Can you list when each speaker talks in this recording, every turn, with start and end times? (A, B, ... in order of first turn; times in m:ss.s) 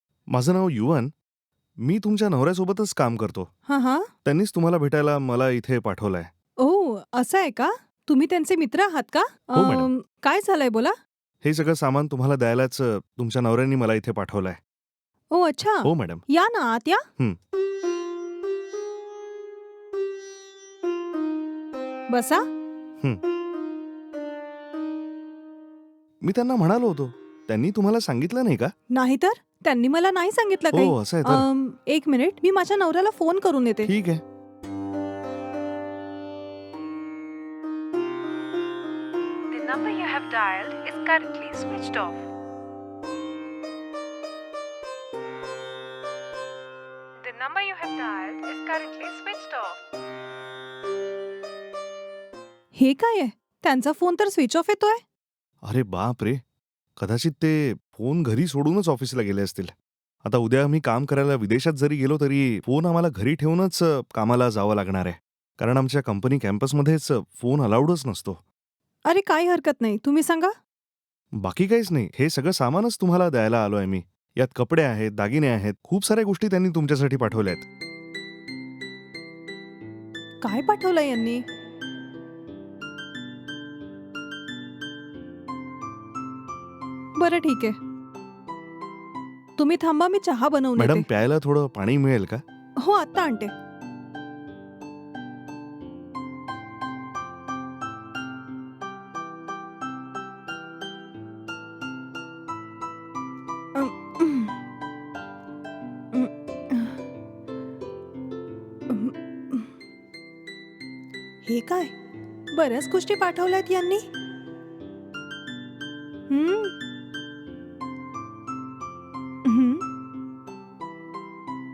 0:00.3-0:01.1 A
0:01.8-0:03.5 A
0:03.7-0:04.1 B
0:04.2-0:06.3 A
0:06.6-0:10.9 B
0:09.5-0:09.9 A
0:11.4-0:14.6 A
0:15.3-0:17.0 B
0:15.8-0:16.2 A
0:22.1-0:22.4 B
0:26.2-0:28.7 A
0:28.9-0:33.9 B
0:30.7-0:31.5 A
0:33.8-0:34.2 A
0:39.5-0:42.2 C
0:47.2-0:49.8 C
0:52.7-0:55.0 B
0:55.6-0:56.4 A
0:57.0-0:59.7 A
1:00.2-1:08.4 A
1:09.1-1:10.5 B
1:11.4-1:17.7 A
1:20.4-1:21.4 B
1:27.2-1:27.7 B
1:29.6-1:31.0 B
1:30.8-1:32.4 A
1:32.8-1:33.5 B
1:43.7-1:44.6 B
1:46.1-1:47.0 B
1:48.9-1:49.7 B
1:51.4-1:51.9 B
1:52.5-1:54.0 B
1:56.3-1:56.7 B
1:59.4-1:59.8 B